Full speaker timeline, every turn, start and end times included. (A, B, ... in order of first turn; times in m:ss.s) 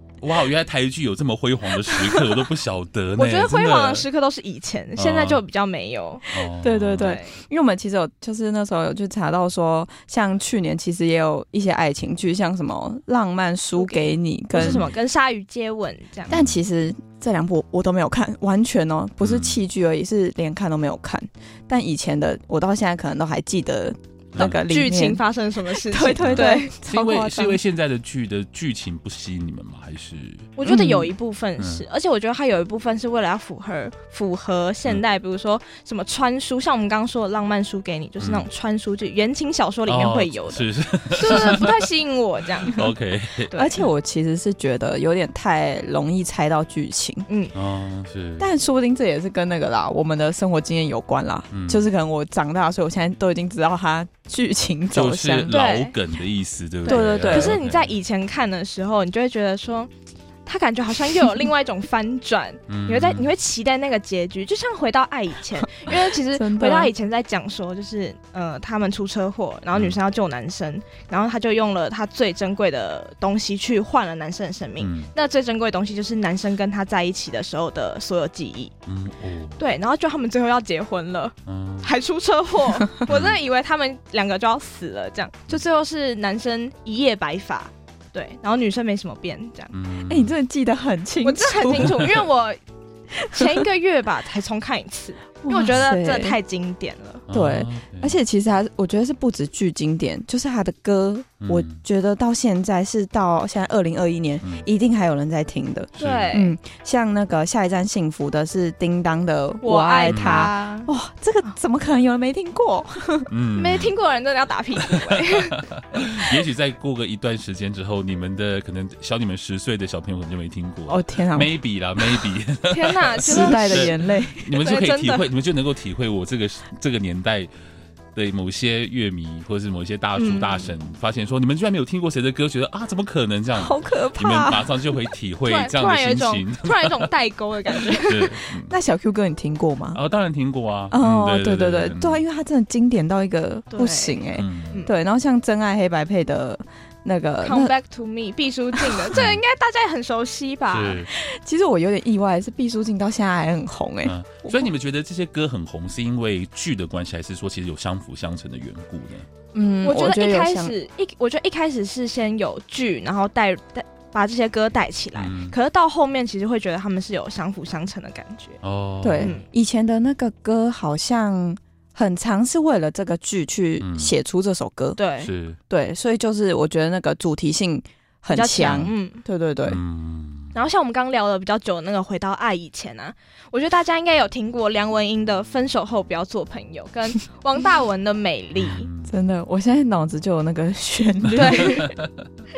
0:00.2-0:04.0 A
0:03.2-0:06.3 B
0:05.0-0:05.4 A
0:06.3-0:07.2 A
0:06.6-0:14.9 C
0:07.0-0:07.4 B
0:13.8-0:16.4 B
0:14.6-0:14.9 A
0:16.3-0:25.2 C
0:16.3-0:16.6 A
0:19.2-0:19.6 A
0:24.4-0:26.7 B
0:25.7-0:27.6 C
0:26.2-0:30.5 A
0:30.6-0:42.9 B
0:30.6-0:31.1 C
0:31.6-0:31.8 A
0:38.2-0:38.5 A
0:39.8-0:41.9 A
0:42.6-0:43.9 A
0:43.5-0:47.3 C
0:47.3-0:47.5 B
0:47.5-0:48.5 A
0:48.4-0:55.5 C
0:51.5-0:51.8 A
0:54.9-0:57.9 A
0:55.5-0:55.9 B
0:56.8-0:59.9 B
0:56.9-0:57.6 C
1:00.4-1:18.7 B
1:02.7-1:03.3 A
1:05.8-1:06.9 C
1:14.8-1:15.1 A
1:18.9-1:19.6 A
1:19.6-1:29.7 B
1:21.5-1:21.9 A
1:23.1-1:23.4 A
1:29.7-1:30.3 A
1:30.1-1:32.1 C
1:31.2-1:32.6 B
1:33.2-1:33.7 C
1:33.2-1:37.2 B
1:35.4-1:36.4 C
1:37.3-1:38.2 A
1:37.3-1:53.3 C
1:41.4-1:41.8 A
1:46.0-1:46.3 A
1:46.0-1:46.5 B
1:49.6-1:50.9 B
1:50.1-1:50.5 A
1:53.3-1:53.9 A
1:53.6-1:55.6 B
1:54.9-2:07.5 A
2:00.9-2:01.5 C
2:02.7-2:04.0 B
2:03.2-2:04.6 C
2:04.6-2:05.3 B
2:08.1-2:17.1 A
2:10.2-2:10.7 B
2:13.6-2:14.7 C
2:15.4-2:18.4 B
2:17.7-2:18.7 A
2:18.7-2:20.0 C
2:19.9-2:22.2 A
2:20.9-2:27.7 C
2:23.7-2:24.9 B
2:24.4-2:24.8 A
2:27.4-2:31.0 B
2:28.8-2:29.1 C
2:29.1-2:29.4 A
2:30.7-2:31.1 A
2:31.1-2:34.7 C
2:34.0-2:39.3 A
2:39.5-2:40.7 C
2:39.8-2:48.6 B
2:45.2-2:45.6 A
2:48.6-2:49.4 A
2:49.0-2:55.0 C
2:49.2-2:49.4 B
2:53.8-2:54.1 A
2:55.0-2:55.3 B
2:55.2-2:55.6 A
2:55.7-2:59.8 C
2:58.3-2:59.2 B
2:59.6-3:00.6 A
3:00.5-3:08.9 B
3:08.6-3:09.1 A
3:09.0-3:11.8 C
3:11.3-3:11.9 B
3:11.8-3:12.3 A